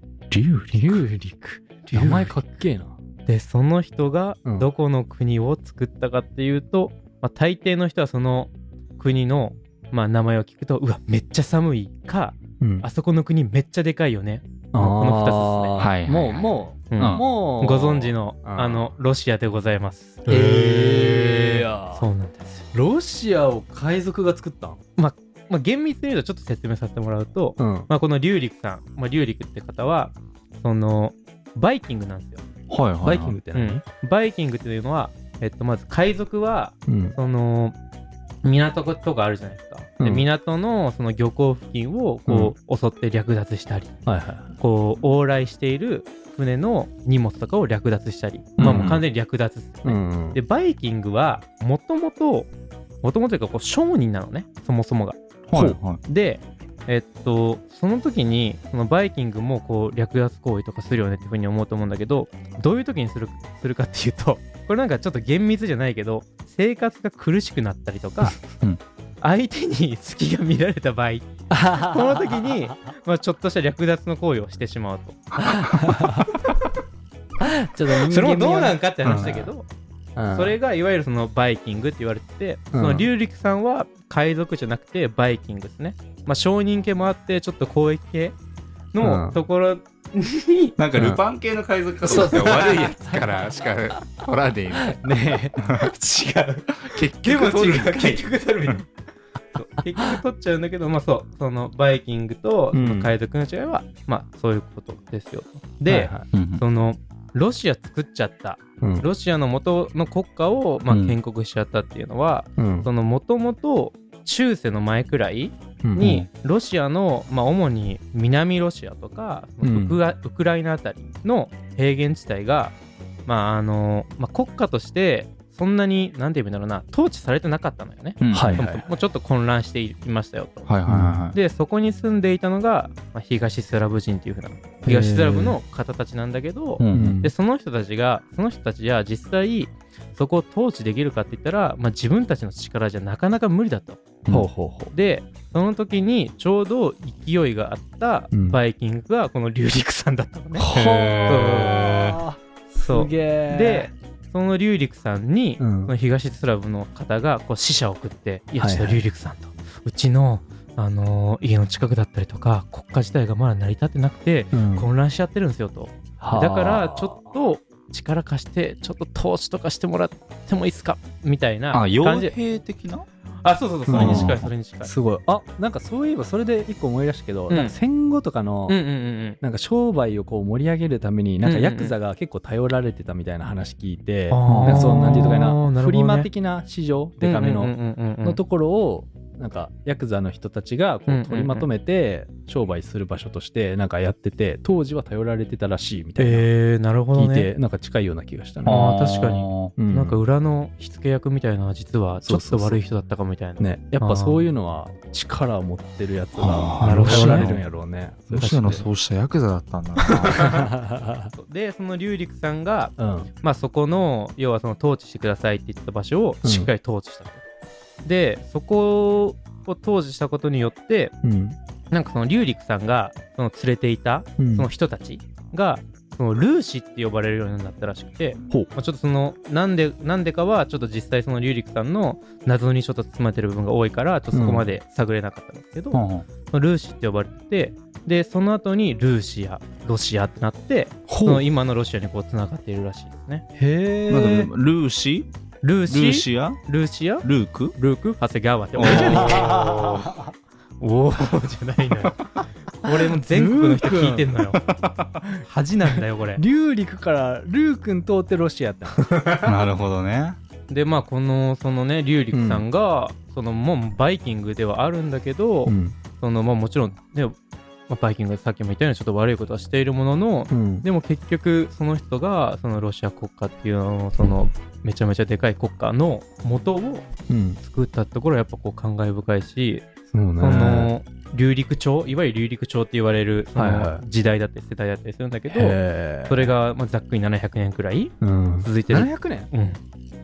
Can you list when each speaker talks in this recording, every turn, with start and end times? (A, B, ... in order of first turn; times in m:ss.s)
0:00.6-0:01.0 A
0:00.7-0:03.0 B
0:01.8-0:02.4 A
0:03.3-0:15.8 A
0:12.6-0:12.9 B
0:14.7-0:18.9 B
0:15.8-0:17.2 C
0:16.9-0:22.6 A
0:20.3-0:22.1 B
0:22.7-0:24.8 B
0:25.0-0:32.4 A
0:27.6-0:27.9 B
0:32.7-0:33.4 C
0:33.0-0:33.8 B
0:33.5-0:37.8 A
0:36.9-0:37.2 B
0:38.4-0:43.9 A
0:40.0-0:40.3 B
0:42.3-0:42.6 B
0:44.1-0:44.6 B
0:44.6-0:52.5 A
0:48.6-0:49.0 C
0:48.6-0:49.0 B
0:49.8-0:50.4 B
0:53.0-0:55.2 A
0:55.5-0:56.0 C
0:55.5-0:55.8 B
0:56.0-1:08.4 A
1:09.2-1:16.5 A
1:11.5-1:12.7 B
1:15.4-1:16.3 B
1:17.4-1:19.5 B
1:17.9-1:19.7 A
1:20.2-1:20.6 B
1:20.3-1:28.4 A
1:22.7-1:23.1 B
1:28.9-1:30.8 A
1:29.0-1:29.4 B
1:30.8-1:35.9 C
1:31.0-1:31.2 B
1:32.0-1:33.3 B
1:32.2-1:32.5 A
1:34.8-1:35.6 B
1:35.8-1:38.9 A
1:36.8-1:38.4 C
1:39.6-2:02.8 A
1:42.7-1:43.1 B
1:45.9-1:46.3 B
1:46.3-1:46.6 C
1:48.8-1:49.1 B
1:50.9-1:51.2 C
1:52.6-1:52.9 B
1:56.0-1:56.3 C
1:59.6-2:00.0 B
2:03.3-2:10.7 A
2:08.2-2:08.6 C
2:08.3-2:08.9 B
2:10.7-2:11.4 C
2:10.9-2:11.2 B
2:11.3-2:24.0 A
2:14.9-2:15.6 B
2:16.8-2:17.2 C
2:16.9-2:17.3 B
2:24.3-2:24.9 B
2:24.9-2:32.0 A
2:28.3-2:28.6 B
2:30.6-2:33.9 B
2:30.7-2:32.2 C
2:32.8-2:52.4 A
2:35.6-2:35.9 B
2:38.6-2:39.0 B
2:44.5-2:44.9 B
2:46.2-2:47.4 B
2:51.7-2:53.0 C
2:53.4-2:54.9 A
2:53.9-2:58.8 B
2:53.9-2:54.5 C
2:57.5-2:57.8 A
2:58.7-2:59.4 A
2:59.4-3:16.5 B
3:01.4-3:02.0 A
3:04.3-3:06.3 A
3:04.4-3:04.9 C
3:07.2-3:08.4 A
3:11.1-3:11.7 A
3:16.2-3:17.5 A
3:17.1-3:18.9 B
3:18.6-3:19.7 C
3:18.7-3:24.4 A
3:19.8-3:20.2 B
3:22.2-3:22.8 B
3:23.6-3:28.8 B
3:26.4-3:27.6 C
3:26.8-3:27.6 A
3:28.3-3:30.5 C
3:28.4-3:28.8 A
3:30.1-3:30.7 A
3:30.3-3:31.3 B
3:31.3-3:37.4 A
3:33.0-3:33.3 B
3:36.4-3:36.7 B
3:38.0-3:41.1 A
3:41.2-3:41.6 B
3:41.9-4:03.4 A
3:44.4-3:44.7 B
3:54.3-3:54.7 B
3:55.9-3:56.3 C
4:01.1-4:01.4 B
4:03.6-4:04.5 B
4:04.1-4:05.3 C
4:05.6-4:10.2 A
4:05.9-4:06.6 C
4:07.2-4:07.8 C
4:08.8-4:09.8 C
4:08.8-4:10.2 B
4:10.8-4:12.2 A
4:12.8-4:14.6 A
4:13.1-4:14.3 B
4:14.6-4:15.0 C
4:15.4-4:16.4 A
4:16.4-4:19.1 B
4:19.0-4:19.5 A
4:19.4-4:20.4 C
4:20.7-4:27.4 A
4:22.3-4:22.7 B
4:25.7-4:26.0 B
4:27.9-4:37.1 A
4:30.5-4:30.9 B
4:37.3-4:37.6 B
4:37.6-4:39.8 A
4:40.1-4:40.9 B
4:40.4-4:49.8 A
4:43.6-4:44.0 B
4:45.5-4:46.5 B
4:48.2-4:49.5 B